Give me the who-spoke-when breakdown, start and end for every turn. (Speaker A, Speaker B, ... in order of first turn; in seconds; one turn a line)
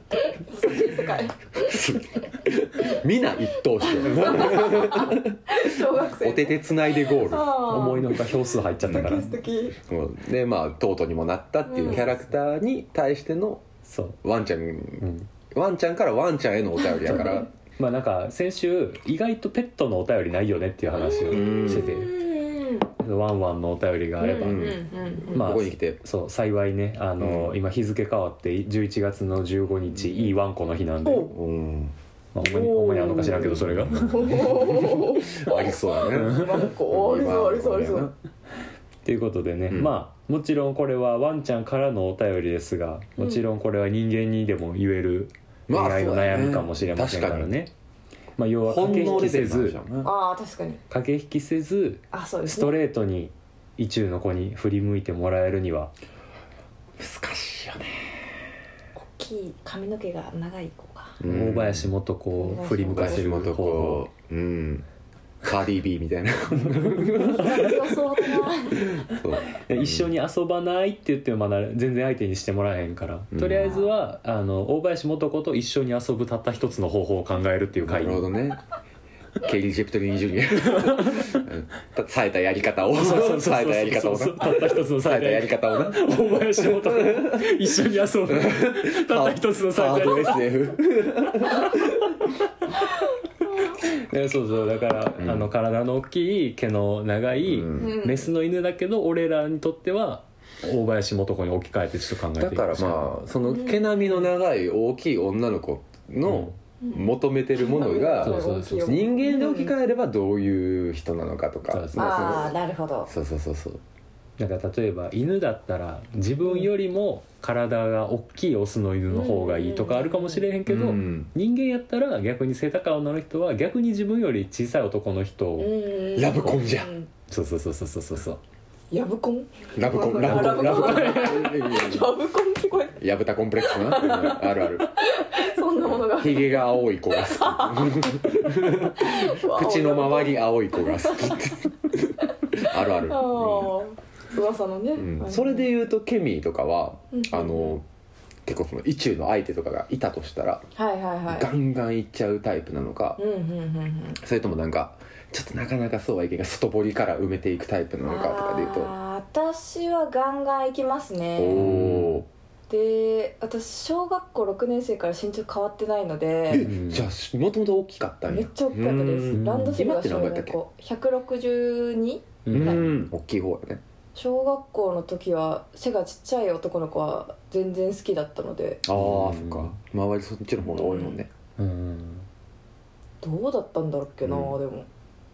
Speaker A: 0.2-1.8
Speaker B: 1.6-7.9
Speaker A: 3.9-9.8
Speaker C: 4.1-4.6
Speaker C: 7.7-9.3
Speaker B: 9.8-13.6
Speaker A: 11.7-12.1
Speaker C: 13.9-14.2
Speaker B: 14.2-17.5
Speaker C: 15.0-15.3
Speaker C: 17.1-22.1
Speaker A: 21.1-22.9
Speaker B: 21.2-22.0
Speaker C: 23.0-24.7
Speaker A: 24.2-25.4
Speaker B: 24.4-26.0
Speaker C: 25.3-31.3
Speaker B: 27.2-27.6
Speaker A: 31.0-31.3
Speaker B: 31.3-31.9
Speaker C: 32.3-34.5
Speaker A: 32.4-38.1
Speaker B: 33.2-38.1
Speaker C: 36.2-36.5
Speaker C: 39.0-47.7
Speaker B: 45.7-47.5
Speaker C: 48.4-49.8
Speaker B: 48.7-50.1
Speaker A: 50.0-50.8
Speaker C: 50.9-55.9
Speaker A: 52.1-52.8
Speaker B: 57.0-58.3
Speaker A: 59.0-61.2
Speaker B: 61.2-61.9
Speaker C: 61.3-64.1
Speaker A: 62.4-63.3
Speaker B: 62.9-64.8
Speaker B: 65.4-67.9
Speaker C: 66.6-67.3
Speaker A: 67.2-69.0
Speaker B: 68.8-70.1
Speaker C: 69.6-78.3
Speaker B: 73.3-73.8
Speaker A: 73.6-73.8
Speaker B: 77.8-78.6
Speaker B: 79.4-87.5
Speaker C: 80.6-81.5
Speaker C: 83.0-90.5
Speaker B: 88.3-92.2
Speaker C: 93.8-103.2
Speaker B: 95.2-95.5
Speaker B: 97.5-98.0
Speaker A: 97.8-98.3
Speaker B: 102.4-112.5
Speaker A: 103.5-104.3
Speaker C: 106.2-106.5
Speaker A: 106.8-109.7
Speaker C: 108.2-109.0
Speaker C: 111.7-112.5
Speaker A: 112.0-113.1
Speaker B: 113.1-113.8
Speaker C: 114.4-125.8
Speaker A: 119.1-120.5
Speaker B: 120.7-121.3
Speaker A: 125.6-127.1
Speaker B: 126.2-126.9
Speaker C: 127.3-128.4
Speaker A: 128.9-133.0
Speaker B: 129.8-132.1
Speaker C: 130.2-131.4
Speaker B: 133.0-134.9
Speaker A: 133.6-141.5
Speaker B: 135.8-143.8
Speaker A: 142.5-145.7
Speaker B: 145.0-147.8
Speaker A: 147.1-147.8
Speaker B: 148.5-150.6
Speaker A: 150.8-151.5
Speaker B: 151.3-153.2
Speaker A: 153.2-154.2
Speaker B: 154.2-158.9
Speaker A: 158.1-161.8
Speaker B: 161.4-162.3
Speaker C: 161.5-162.2
Speaker A: 162.7-166.7
Speaker B: 166.5-170.6
Speaker C: 166.6-167.1
Speaker A: 168.3-172.9
Speaker C: 169.3-169.8
Speaker C: 172.4-172.9
Speaker B: 172.5-173.8
Speaker A: 174.2-178.8
Speaker B: 178.9-181.3
Speaker C: 178.9-179.8
Speaker A: 180.7-181.2
Speaker C: 181.6-182.3
Speaker A: 183.2-184.9
Speaker B: 184.2-184.6